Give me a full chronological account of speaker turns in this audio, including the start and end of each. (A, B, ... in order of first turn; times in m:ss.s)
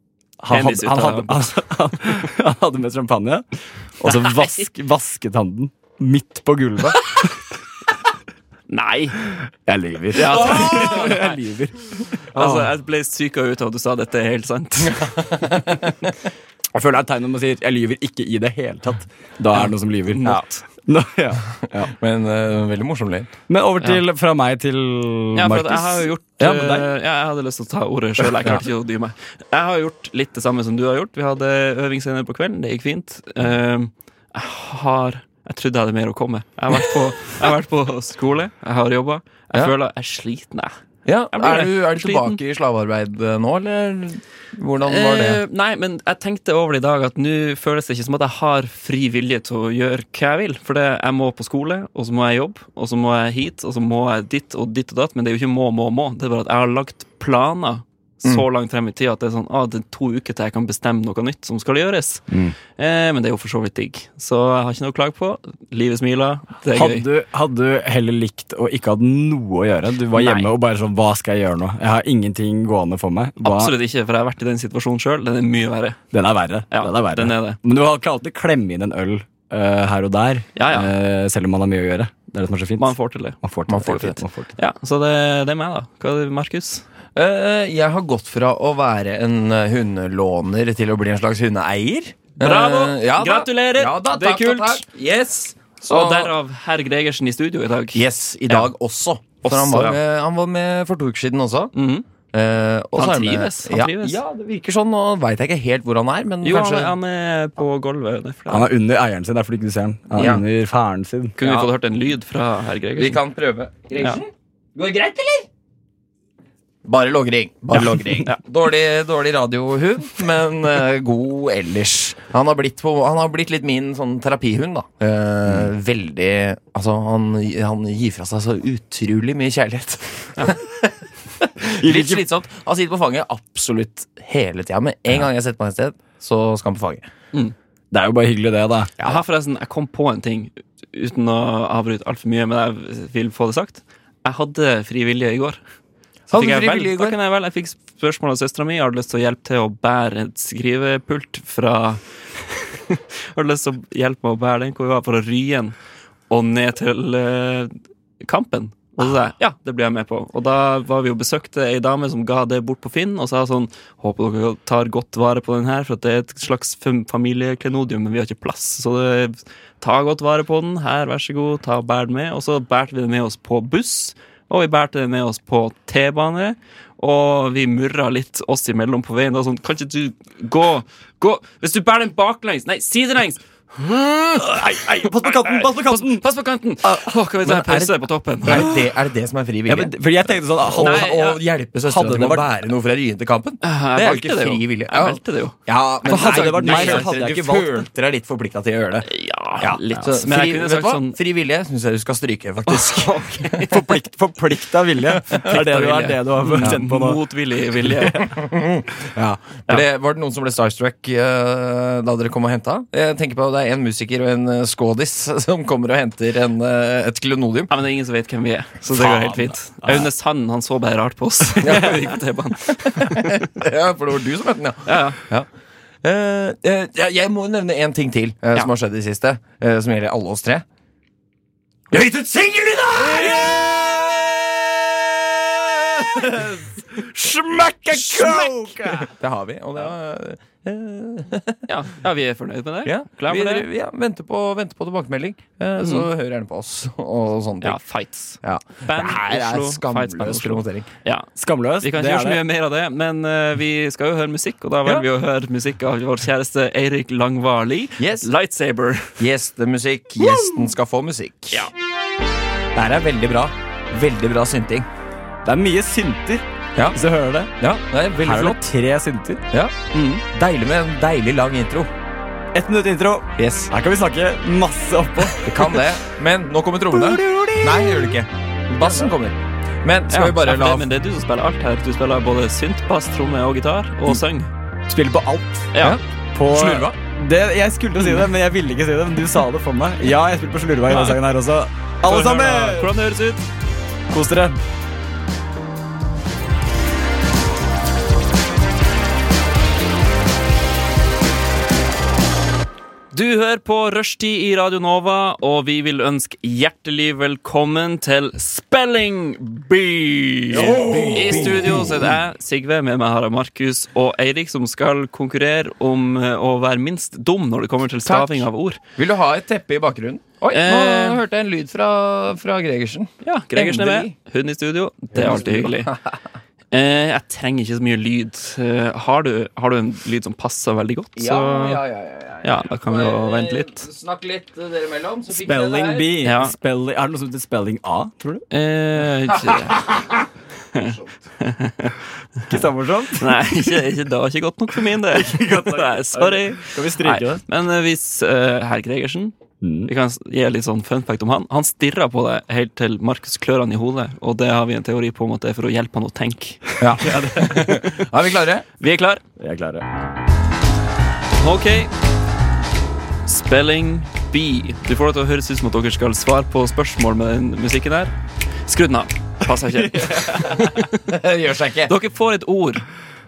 0:00.4-0:03.4 A
0:00.5-0:01.6 B
0:04.0-0:07.3 A
0:04.0-0:04.7 B
0:08.7-0:09.2 B
0:09.6-0:11.8 A
0:10.1-0:11.4 B
0:10.3-0:11.1 C
0:12.3-0:15.2 B
0:12.4-0:12.7 A
0:15.0-0:15.8 C
0:16.7-0:21.9 A
0:19.5-0:20.6 B
0:21.9-0:23.3 C
0:23.5-0:26.9 A
0:25.4-0:40.8 B
0:41.1-0:45.4 C
0:41.3-0:42.4 B
0:44.8-1:02.2 B
1:02.3-1:02.6 A
1:02.8-1:07.1 B
1:06.7-1:13.8 A
1:10.2-1:10.5 B
1:13.4-1:16.0 B
1:16.1-1:24.5 A
1:16.7-1:17.6 B
1:20.6-1:20.9 B
1:22.8-1:26.8 B
1:23.7-1:24.1 C
1:27.2-1:36.3 C
1:32.4-1:34.8 B
1:35.9-1:38.7 B
1:37.9-1:41.7 C
1:39.4-1:40.0 B
1:41.8-1:42.0 B
1:42.3-1:47.0 C
1:43.0-1:44.2 B
1:46.4-1:48.7 B
1:48.5-1:51.4 A
1:50.2-1:50.4 C
1:51.4-1:53.2 B
1:51.4-1:51.7 C
1:53.0-1:55.5 C
1:56.8-2:17.1 C
2:11.8-2:12.2 A
2:17.9-2:18.9 A
2:19.0-2:25.6 B
2:26.3-2:27.2 C
2:26.3-2:32.0 B
2:32.8-2:35.8 B
2:36.3-3:08.7 B
3:04.5-3:06.2 A
3:07.4-3:07.9 C
3:08.4-3:10.0 C
3:08.5-3:08.8 A
3:09.7-3:11.2 A
3:10.6-3:19.1 C
3:10.8-3:11.4 B
3:11.8-3:12.5 A
3:13.6-3:17.1 B
3:16.0-3:17.9 A
3:19.0-3:21.2 B
3:19.6-3:23.8 C
3:22.7-3:23.7 B
3:23.6-3:27.2 A
3:25.2-3:25.6 C
3:25.5-3:28.3 B
3:28.1-3:37.7 C
3:37.7-3:43.4 B
3:41.6-3:42.1 C
3:43.0-3:45.5 C
3:44.9-3:45.2 B
3:46.0-3:50.6 C
3:51.9-4:01.6 C
3:57.9-3:59.1 A
4:01.7-4:03.7 B
4:02.8-4:07.8 C
4:05.8-4:06.1 B
4:07.6-4:19.2 B
4:08.4-4:10.9 C
4:11.4-4:12.4 A
4:18.0-4:18.3 C
4:19.2-4:21.7 C
4:22.8-4:24.9 C
4:25.4-4:27.5 A
4:27.6-4:28.6 C
4:28.2-4:29.4 A
4:29.9-4:30.2 B
4:30.3-4:31.9 C
4:32.5-4:35.9 A
4:33.4-4:33.7 C
4:35.2-4:40.9 C
4:36.9-4:38.2 A
4:38.8-4:39.1 A
4:40.1-4:44.5 B
4:44.9-4:45.7 A
4:45.7-4:46.0 B
4:45.8-4:47.0 C
4:46.3-4:52.9 A
4:50.9-4:51.2 B
4:52.0-4:53.5 B
4:54.1-4:54.6 A
5:03.1-5:18.8 B
5:10.5-5:12.1 C
5:18.1-5:24.1 C
5:20.5-5:21.2 B
5:23.2-5:25.9 B
5:25.1-5:26.1 C
5:26.7-5:31.8 B
5:31.2-5:36.2 C
5:32.4-5:33.8 B
5:35.3-5:38.3 A
5:36.2-5:36.5 B
5:38.5-5:39.8 B
5:39.4-5:40.1 C
5:40.7-5:42.0 B
5:40.8-5:41.1 C
5:42.5-5:43.4 A
5:43.2-5:49.4 B
5:45.1-5:47.4 A
5:49.6-5:49.9 A
5:49.9-5:58.0 B
5:56.8-5:58.6 C
5:57.0-5:57.8 A
5:58.8-5:59.2 B
5:59.4-5:59.9 A
6:01.4-6:01.9 B
6:03.2-6:08.1 B
6:08.7-6:11.0 B
6:10.9-6:11.9 C
6:11.9-6:12.8 B